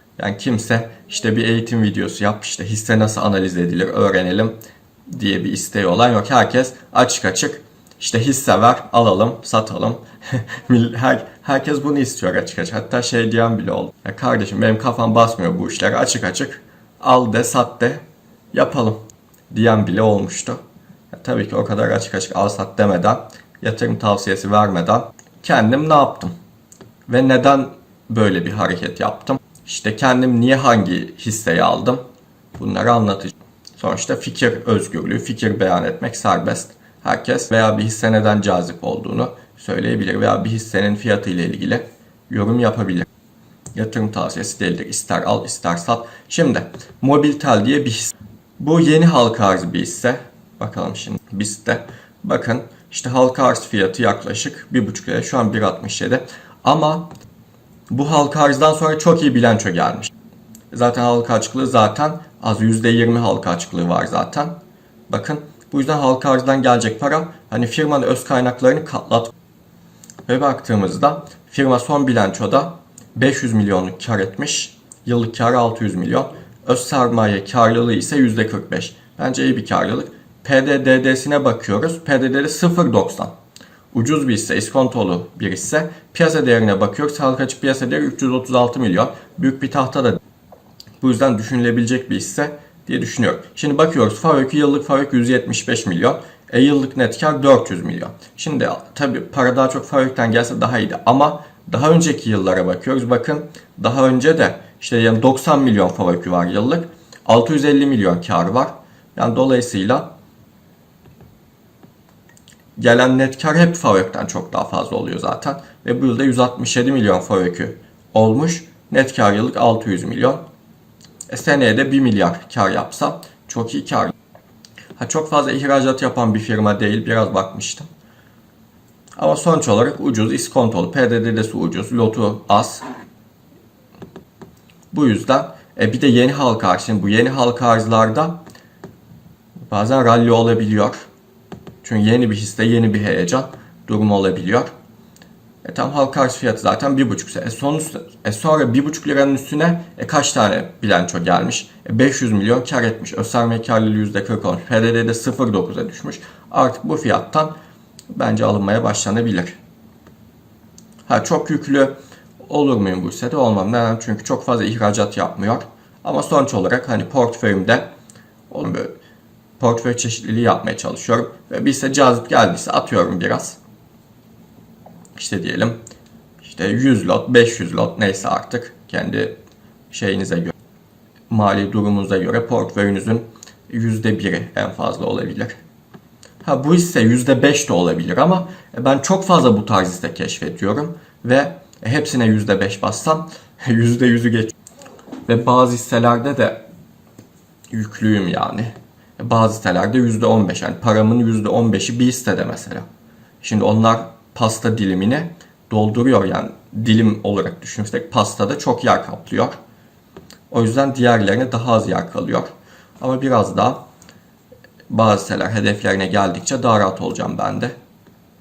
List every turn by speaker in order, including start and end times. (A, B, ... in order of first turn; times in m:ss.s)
0:00.2-0:04.5 A
0:05.1-0:19.0 A
0:19.5-0:20.6 A
0:21.1-0:26.3 A
0:27.1-0:32.0 A
0:32.6-0:43.1 A
0:43.7-0:57.1 A
0:57.9-1:00.1 A
1:00.7-1:04.5 A
1:05.1-1:09.3 A
1:10.3-1:23.3 A
1:23.9-1:30.2 A
1:31.0-1:50.1 A
1:52.8-2:00.4 A
2:01.3-2:04.1 A
2:05.0-2:07.9 A
2:09.2-2:12.8 A
2:14.9-2:18.4 A
2:19.7-2:21.0 A
2:21.8-2:24.7 A
2:25.6-2:37.5 A
2:38.1-2:39.6 A
2:41.0-2:47.9 A
2:48.5-2:48.9 A
2:49.6-2:53.6 A
2:55.1-2:55.8 A
2:56.4-2:59.3 A
2:59.9-3:00.5 A
3:01.3-3:05.5 A
3:06.4-3:14.5 A
3:15.2-3:16.6 A
3:17.7-3:22.8 A
3:23.4-3:29.6 A
3:30.5-3:33.8 A
3:34.9-3:37.7 A